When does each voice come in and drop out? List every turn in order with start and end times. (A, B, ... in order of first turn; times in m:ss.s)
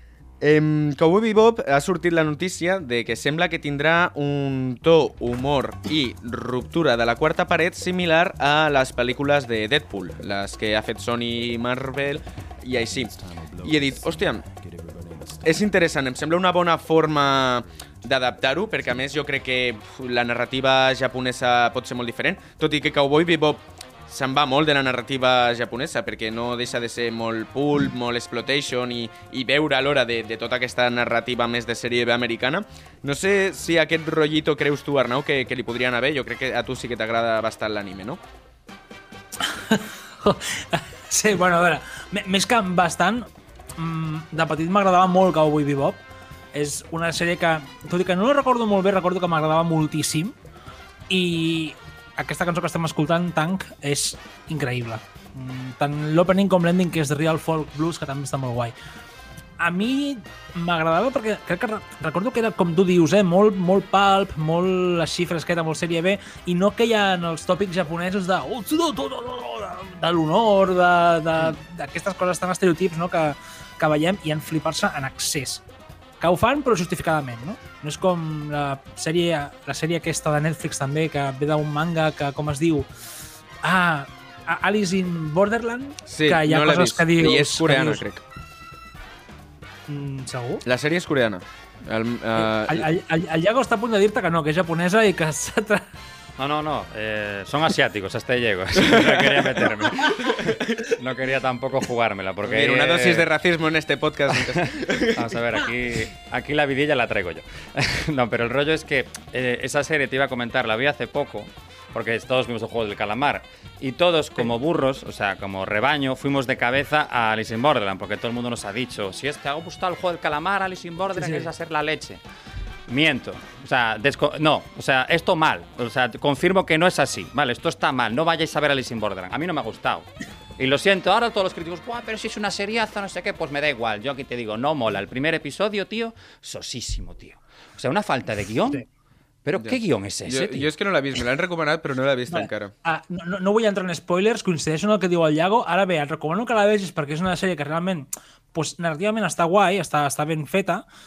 0:00.4-0:14.5 A
0:15.3-0:38.2 A
0:39.4-0:46.0 B
0:46.5-0:50.3 B
0:51.1-0:58.7 B
0:59.6-1:15.6 B
1:16.2-1:22.9 B
1:23.6-1:28.0 B
1:26.1-1:28.2 A
1:29.9-1:30.6 B
1:30.6-1:32.8 A
1:32.4-1:35.9 B
1:36.4-1:43.3 C
1:38.8-1:40.8 A
1:42.4-1:45.3 A
1:44.5-2:02.2 C
2:01.2-2:01.5 B
2:02.9-2:18.8 C
2:19.4-2:20.7 C
2:19.6-2:22.7 A
2:22.3-2:30.8 B